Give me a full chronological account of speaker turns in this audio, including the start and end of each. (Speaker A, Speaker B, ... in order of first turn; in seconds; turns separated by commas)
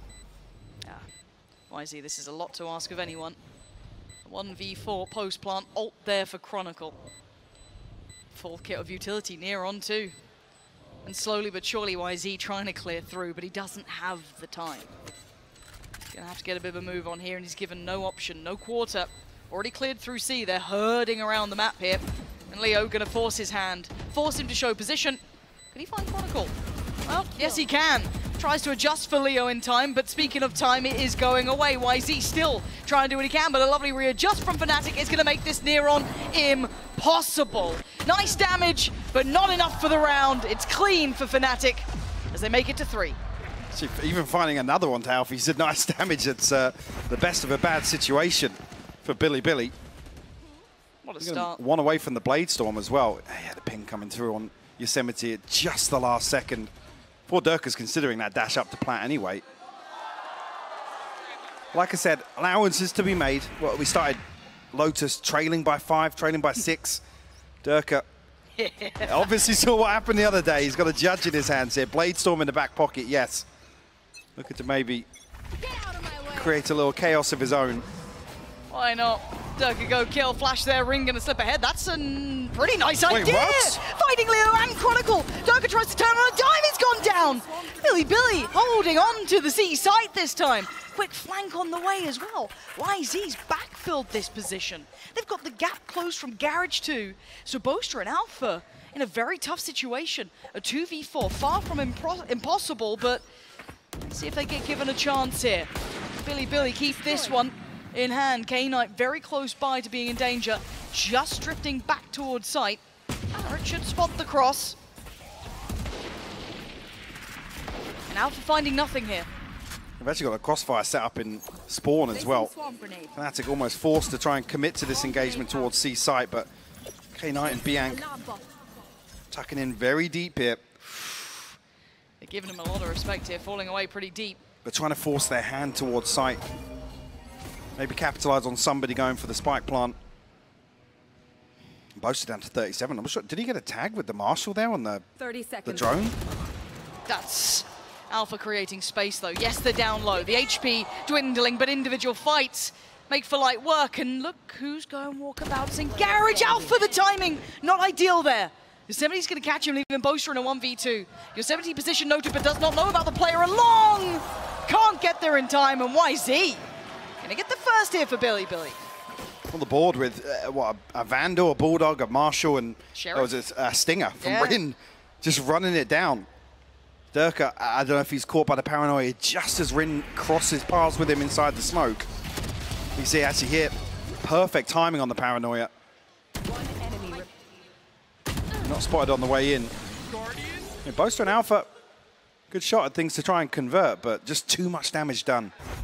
Speaker A: 1.7-3.4, Speaker A: 4.2-7.0, Speaker A: 8.3-10.2, Speaker A: 11.1-14.9, Speaker A: 16.1-25.2, Speaker A: 25.7-26.6, Speaker A: 27.1-43.2, Speaker B: 43.7-49.7, Speaker A: 51.0-51.6, Speaker B: 51.2-56.7, Speaker B: 57.3-59.4, Speaker B: 61.7-64.2, Speaker B: 64.7-67.0, Speaker B: 67.6-68.0, Speaker A: 68.5-69.3, Speaker B: 69.0-73.5, Speaker B: 74.4-75.1, Speaker C: 75.6-76.5, Speaker B: 76.3-77.8, Speaker A: 78.7-103.2, Speaker B: 83.1-83.8, Speaker C: 87.2-87.7, Speaker A: 104.0-112.8, Speaker A: 113.3-114.8, Speaker A: 118.1-119.3, Speaker B: 120.0-122.5, Speaker C: 122.1-123.2, Speaker B: 123.1-126.5, Speaker C: 124.9-125.7, Speaker B: 127.1-128.1, Speaker C: 127.6-128.6, Speaker B: 129.3-130.6, Speaker A: 130.8-131.6, Speaker A: 132.2-134.4, Speaker B: 134.6-136.4, Speaker B: 137.8-139.9, Speaker B: 142.0-145.1, Speaker C: 145.2-145.9, Speaker B: 145.6-146.2, Speaker A: 147.1-166.6, Speaker C: 155.9-157.0, Speaker A: 167.2-168.8, Speaker B: 169.5-176.3, Speaker A: 172.9-173.3, Speaker A: 174.2-174.6, Speaker B: 177.1-182.1, Speaker B: 182.9-185.7, Speaker C: 186.4-187.3, Speaker B: 188.6-189.7, Speaker B: 190.8-191.7, Speaker B: 192.5-195.5